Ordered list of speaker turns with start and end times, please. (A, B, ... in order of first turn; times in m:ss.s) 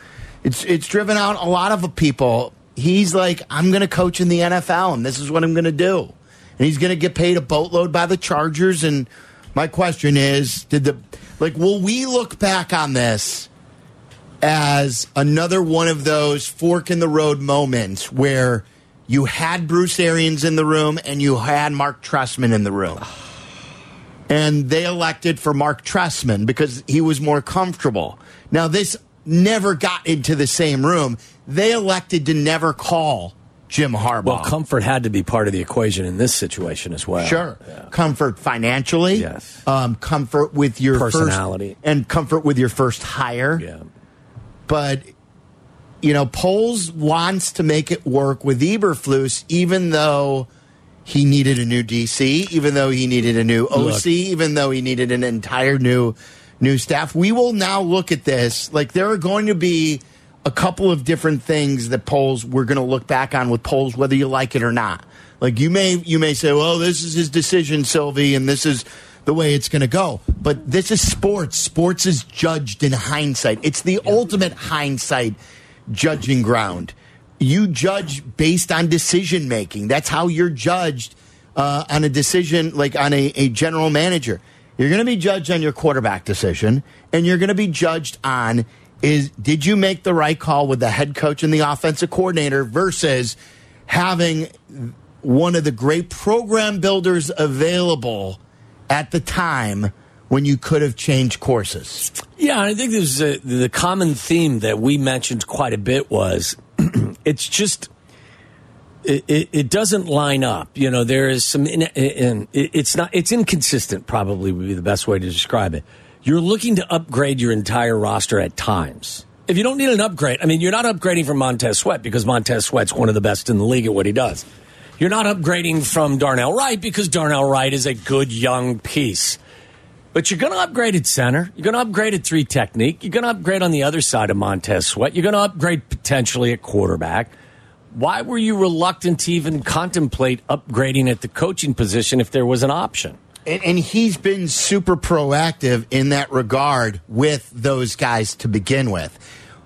0:00.4-0:13.5 A
0:14.4-0:23.0 A
0:24.3-0:34.6 A
0:34.2-0:37.9 B
0:37.2-0:43.6 A
0:39.1-0:39.6 B
0:40.9-0:41.8 B
0:43.6-0:43.8 B
0:44.7-0:45.1 A
0:46.0-0:50.5 A
0:51.0-1:15.4 A
0:53.7-0:54.0 B
1:15.9-1:42.1 A
1:42.4-1:47.9 B
1:49.0-2:04.4 B
2:05.0-2:09.4 B
2:10.1-2:17.3 B
2:17.9-2:23.2 B
2:23.4-2:29.2 A